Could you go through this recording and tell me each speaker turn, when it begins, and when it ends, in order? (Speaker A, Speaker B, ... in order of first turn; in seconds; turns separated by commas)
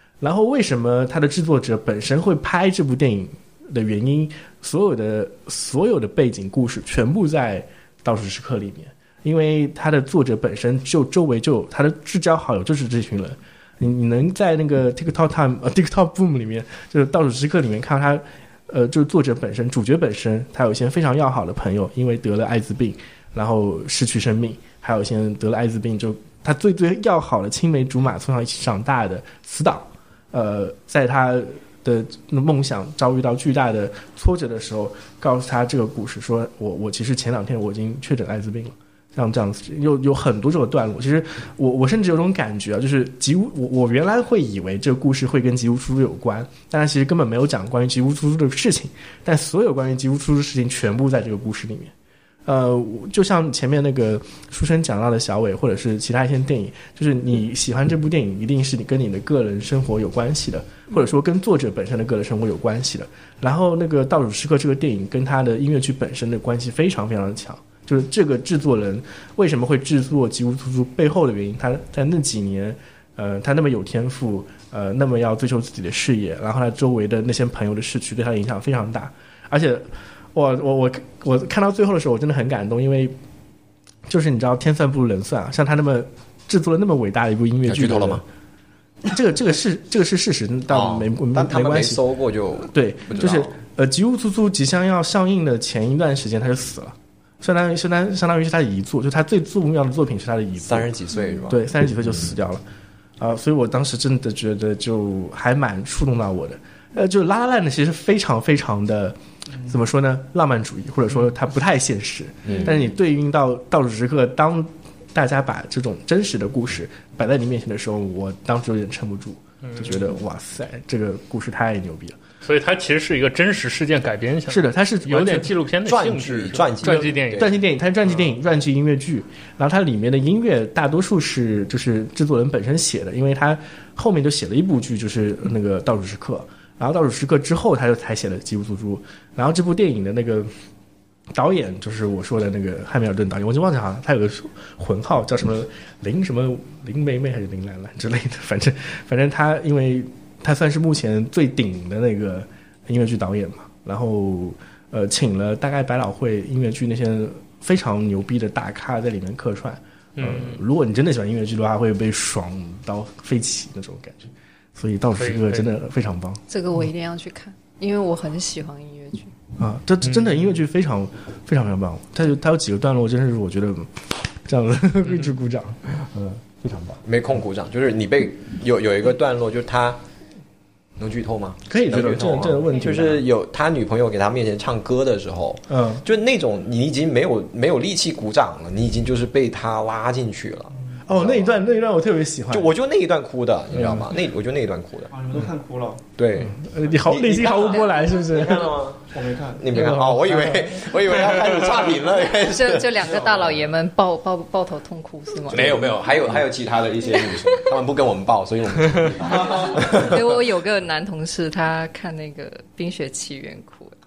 Speaker A: 0.2-51.9, Speaker A: 52.5-83.1, Speaker A: 84.1-88.2, Speaker B: 87.7-88.2, Speaker A: 89.0-100.9, Speaker B: 90.7-93.5, Speaker B: 100.6-101.6, Speaker A: 101.5-102.6, Speaker A: 103.2-122.2, Speaker B: 112.5-112.8, Speaker C: 119.6-120.0, Speaker C: 122.4-127.6, Speaker A: 124.5-125.5, Speaker B: 125.8-127.5, Speaker A: 126.8-140.5, Speaker A: 141.3-166.4, Speaker C: 160.2-160.6, Speaker C: 165.2-165.7, Speaker D: 166.5-169.3, Speaker A: 169.6-177.0, Speaker C: 170.0-170.4, Speaker B: 177.0-180.0, Speaker B: 181.0-191.6, Speaker A: 181.7-183.3, Speaker A: 185.7-186.1, Speaker A: 191.1-192.7, Speaker B: 192.5-195.1, Speaker A: 193.7-194.1, Speaker E: 195.1-196.0, Speaker B: 196.2-203.4, Speaker A: 196.4-198.8, Speaker E: 199.1-199.6, Speaker A: 199.7-201.6, Speaker D: 202.4-205.8, Speaker A: 205.5-205.8, Speaker B: 205.5-210.4, Speaker D: 207.1-207.8, Speaker E: 209.3-209.9, Speaker D: 209.7-213.9